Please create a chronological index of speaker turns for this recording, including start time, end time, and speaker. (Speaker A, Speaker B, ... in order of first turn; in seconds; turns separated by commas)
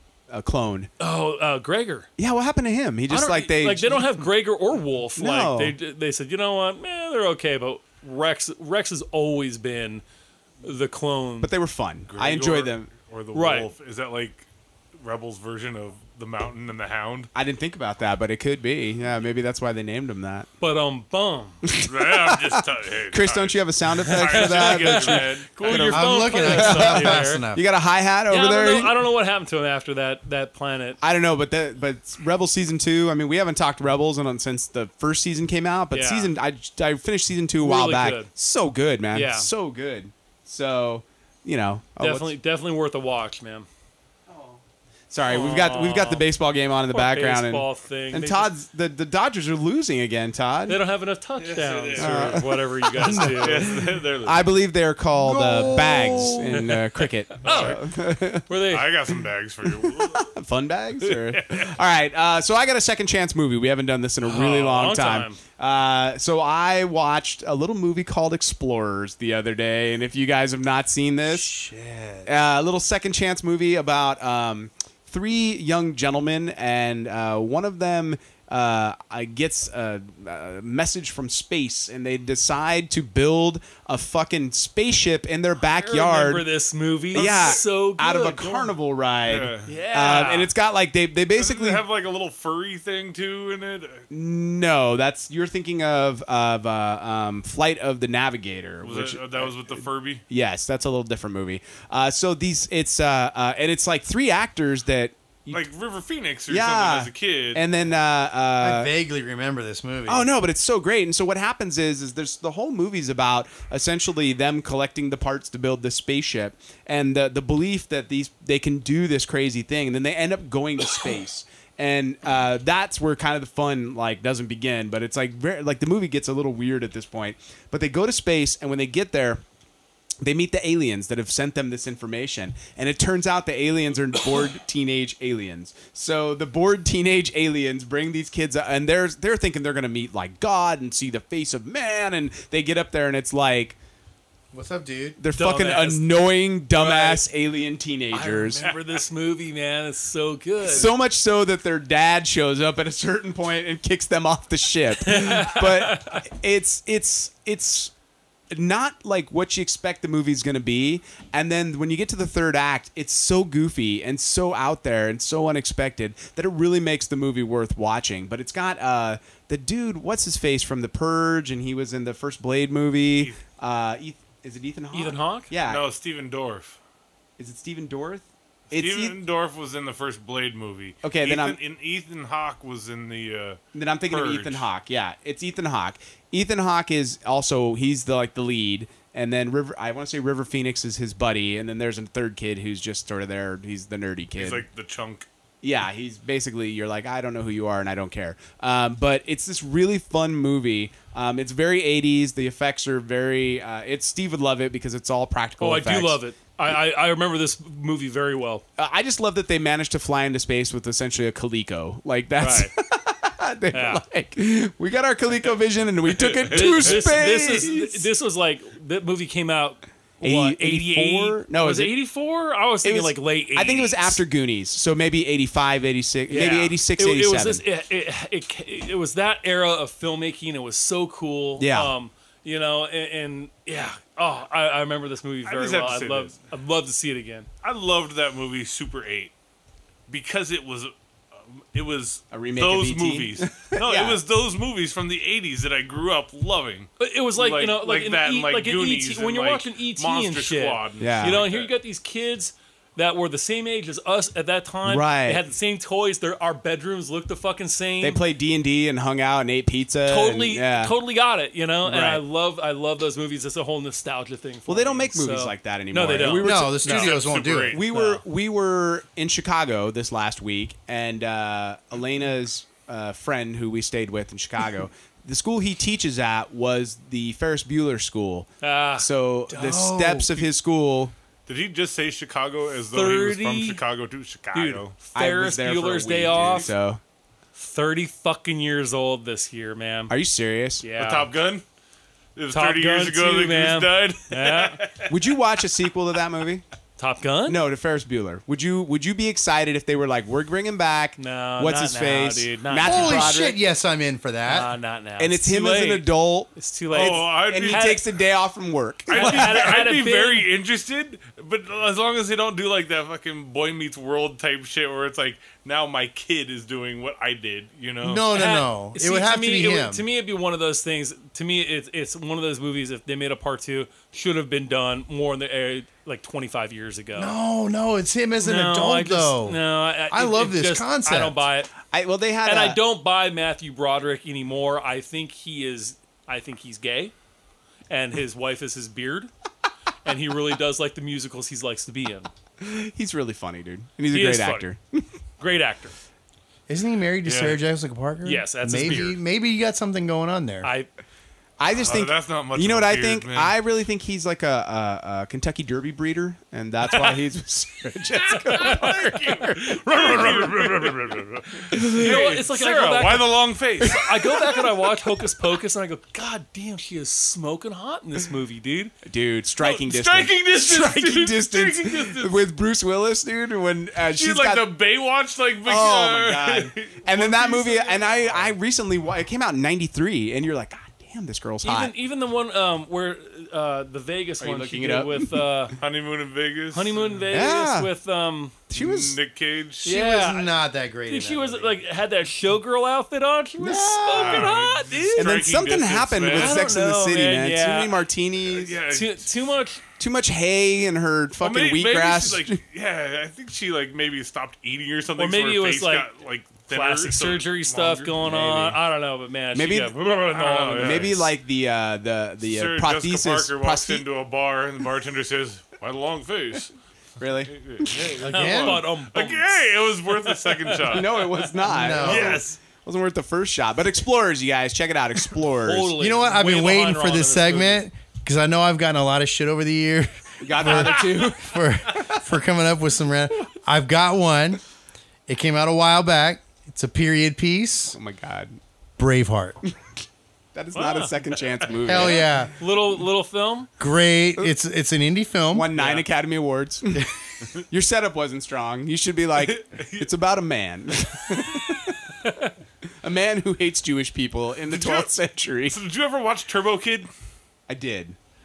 Speaker A: 0.3-0.9, Speaker B: 1.0-2.1, Speaker A: 2.2-4.3, Speaker B: 3.1-10.0, Speaker A: 5.2-5.8, Speaker B: 10.6-11.5, Speaker A: 11.4-12.9, Speaker C: 12.1-14.5, Speaker B: 13.3-13.7, Speaker C: 15.0-17.3, Speaker A: 17.4-20.5, Speaker B: 20.6-21.6, Speaker A: 21.6-28.9, Speaker C: 21.8-26.2, Speaker B: 24.1-27.5, Speaker D: 25.8-27.6, Speaker B: 28.3-31.0, Speaker A: 31.0-42.3, Speaker B: 35.9-36.3, Speaker B: 37.6-38.3, Speaker B: 39.1-39.5, Speaker B: 42.0-43.7, Speaker A: 44.3-50.8, Speaker B: 45.3-46.3, Speaker B: 46.9-48.5, Speaker B: 50.7-53.8, Speaker C: 51.4-52.5, Speaker A: 52.0-52.5, Speaker D: 53.0-53.8, Speaker C: 53.2-54.5, Speaker A: 53.7-58.5, Speaker D: 55.2-56.7, Speaker B: 56.6-56.8, Speaker B: 57.4-57.8, Speaker C: 57.4-57.8, Speaker B: 58.5-58.9, Speaker C: 58.7-60.3, Speaker A: 59.8-71.6, Speaker C: 61.1-61.7, Speaker B: 64.2-65.4, Speaker D: 71.3-72.3, Speaker A: 72.2-86.5, Speaker B: 85.7-88.7, Speaker A: 87.1-91.8, Speaker C: 87.2-87.6, Speaker C: 89.3-89.7, Speaker B: 89.7-90.5, Speaker C: 91.3-94.0, Speaker A: 94.1-105.6, Speaker C: 98.8-100.2, Speaker C: 105.5-107.6, Speaker A: 106.5-108.9, Speaker D: 108.6-110.3, Speaker A: 110.1-129.4, Speaker A: 130.2-143.8, Speaker D: 144.5-145.2, Speaker A: 145.2-148.6, Speaker B: 145.3-147.3, Speaker B: 148.1-150.9, Speaker A: 150.6-157.9, Speaker B: 155.0-156.2, Speaker A: 158.5-175.9, Speaker B: 174.9-175.5, Speaker C: 175.7-176.8, Speaker A: 177.4-179.2, Speaker C: 178.7-184.7, Speaker A: 181.0-181.6, Speaker A: 183.7-194.7, Speaker C: 194.4-195.3, Speaker A: 195.6-206.2, Speaker B: 205.6-208.7, Speaker A: 208.8-218.1, Speaker B: 212.4-212.7, Speaker B: 213.7-214.0, Speaker C: 216.2-216.9, Speaker B: 216.5-224.2, Speaker A: 220.2-221.9, Speaker A: 222.8-227.6, Speaker B: 226.3-237.5, Speaker A: 231.6-231.9, Speaker C: 235.5-236.3, Speaker C: 237.6-239.3, Speaker C: 240.1-251.7, Speaker A: 242.3-244.2, Speaker B: 247.0-258.2, Speaker A: 251.0-251.4, Speaker A: 254.8-255.4, Speaker A: 258.0-261.0, Speaker B: 260.1-267.1, Speaker A: 261.8-262.2, Speaker A: 264.7-281.1, Speaker D: 266.4-267.7, Speaker C: 266.8-267.8, Speaker B: 267.8-268.2, Speaker B: 278.6-279.1, Speaker D: 279.5-280.4, Speaker C: 281.5-284.9, Speaker B: 282.9-283.8, Speaker B: 284.5-286.7, Speaker A: 285.1-287.0, Speaker B: 287.6-290.1, Speaker A: 290.1-290.8, Speaker B: 290.8-291.3, Speaker C: 291.0-291.6, Speaker C: 292.4-295.2, Speaker B: 292.5-294.8, Speaker A: 295.1-296.6, Speaker B: 297.0-297.6, Speaker A: 297.5-303.6, Speaker B: 301.2-303.4, Speaker D: 302.8-304.7, Speaker B: 304.4-308.0, Speaker A: 305.2-309.8, Speaker C: 306.9-307.9, Speaker C: 309.1-318.3, Speaker B: 309.1-310.5, Speaker D: 318.0-320.0, Speaker B: 318.3-327.4, Speaker D: 327.2-331.4, Speaker B: 328.4-331.7, Speaker A: 331.9-332.8, Speaker B: 332.4-337.1, Speaker B: 337.9-339.3, Speaker B: 340.1-342.3, Speaker A: 342.6-345.1, Speaker B: 344.1-344.7, Speaker B: 345.4-345.9, Speaker D: 346.7-350.7, Speaker C: 347.2-347.6, Speaker B: 348.2-349.2, Speaker B: 350.6-350.9, Speaker A: 351.6-360.9, Speaker C: 351.8-353.6, Speaker C: 358.4-364.4, Speaker B: 358.4-358.9, Speaker A: 361.7-362.2, Speaker B: 361.9-368.9, Speaker A: 369.1-374.7, Speaker C: 369.6-372.4, Speaker C: 374.1-378.6, Speaker A: 375.6-381.9, Speaker B: 381.6-385.8, Speaker A: 384.4-385.7, Speaker C: 385.8-387.2, Speaker B: 386.7-388.6, Speaker A: 387.3-387.9, Speaker A: 388.7-389.2, Speaker C: 388.7-389.9, Speaker D: 389.8-391.8, Speaker B: 389.9-395.4, Speaker A: 393.6-394.6, Speaker C: 394.1-396.6, Speaker A: 395.2-398.8, Speaker B: 396.3-397.9, Speaker C: 398.5-399.3, Speaker B: 398.9-399.8, Speaker A: 400.0-402.6, Speaker C: 401.4-408.8, Speaker B: 405.2-406.1, Speaker B: 406.7-411.2, Speaker A: 409.5-409.9, Speaker C: 410.3-411.3, Speaker A: 410.8-414.1, Speaker C: 412.4-416.7, Speaker A: 417.2-418.2, Speaker C: 417.5-421.1, Speaker B: 418.2-421.4, Speaker D: 418.3-418.8, Speaker A: 420.9-425.9, Speaker D: 421.7-422.4, Speaker B: 421.9-422.4, Speaker C: 422.0-422.6, Speaker B: 425.6-427.9, Speaker D: 426.0-434.6, Speaker A: 430.4-432.2, Speaker D: 435.3-438.0, Speaker A: 437.9-438.6, Speaker D: 439.0-439.6, Speaker A: 440.5-442.3, Speaker B: 440.8-441.2, Speaker D: 441.9-442.5, Speaker B: 441.9-443.7, Speaker D: 443.8-445.7, Speaker A: 445.5-447.1, Speaker B: 445.8-446.1, Speaker A: 447.7-452.0, Speaker C: 449.4-450.1, Speaker A: 453.0-455.8, Speaker C: 454.7-455.1, Speaker C: 455.7-457.1, Speaker A: 457.7-458.2